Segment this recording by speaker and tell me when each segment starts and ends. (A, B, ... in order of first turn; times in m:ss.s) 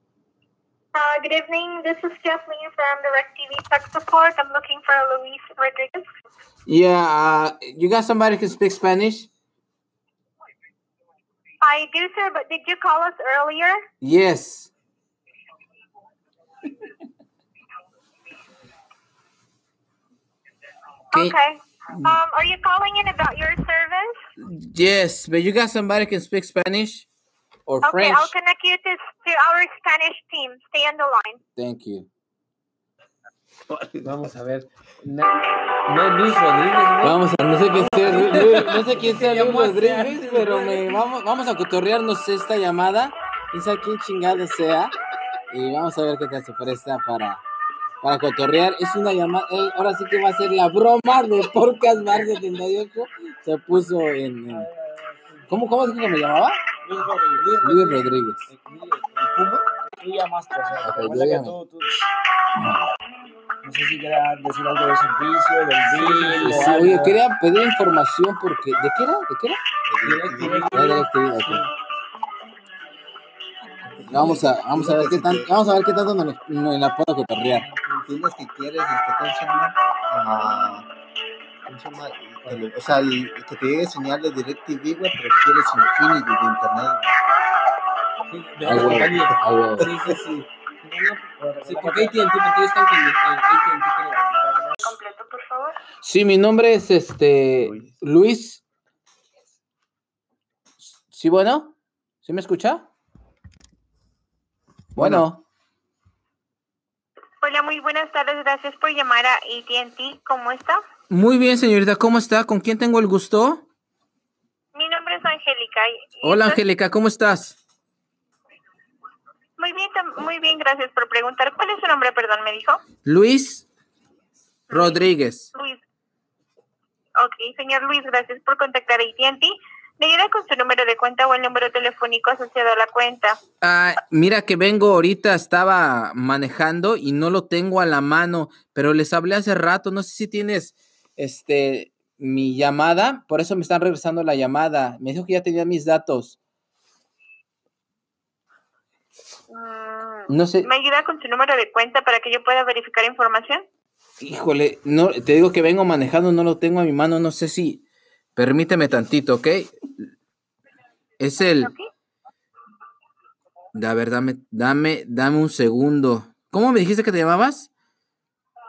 0:00.9-0:06.1 A
0:06.7-0:09.3 B
0:11.6-0:13.8 A
0:14.0-0:14.7 B
0:21.1-0:24.2 A
0:21.9-0:22.2 B
0:24.4-0:27.1 B
0:27.7-0:28.3 B
0:27.8-0:31.4 A
0:31.6-0:32.1 B
0:33.9-0:37.2 C
0:37.0-0:44.9 B
0:37.7-0:41.0 C
0:45.5-0:47.4 B
0:48.0-0:54.7 B
0:54.7-0:55.0 D
0:55.5-0:56.6 B
0:56.8-0:57.9 D
0:57.5-0:58.5 B
0:58.5-1:02.1 D
1:00.8-1:01.6 B
1:02.6-1:02.9 B
1:03.6-1:07.2 D
1:05.9-1:07.0 C
1:06.4-1:09.6 B
1:09.9-1:10.8 E
1:10.0-1:11.7 C
1:10.4-1:11.0 D
1:10.7-1:11.6 B
1:14.1-1:17.7 B
1:14.1-1:15.5 E
1:17.5-1:18.2 C
1:18.1-1:20.9 E
1:21.7-1:27.1 E
1:28.3-1:34.8 C
1:28.6-1:29.9 B
1:34.8-1:35.8 A
1:36.0-1:38.6 B
1:41.1-1:42.9 B
1:45.0-1:45.4 B
1:45.0-1:45.3 C
1:47.4-1:50.8 A
1:51.1-1:53.6 B
1:54.7-1:56.6 A
1:56.2-1:57.6 B
1:59.6-2:02.8 A
2:03.0-2:03.7 B
2:04.7-2:05.5 B
2:04.7-2:05.0 A
2:05.5-2:05.8 A
2:07.2-2:13.4 A
2:13.6-2:26.4 B
2:29.5-2:33.6 A
2:30.3-2:30.7 B
2:34.2-2:37.8 B
2:38.4-2:39.8 B
2:41.2-2:41.7 B
2:41.6-2:41.9 A
2:43.7-2:47.7 B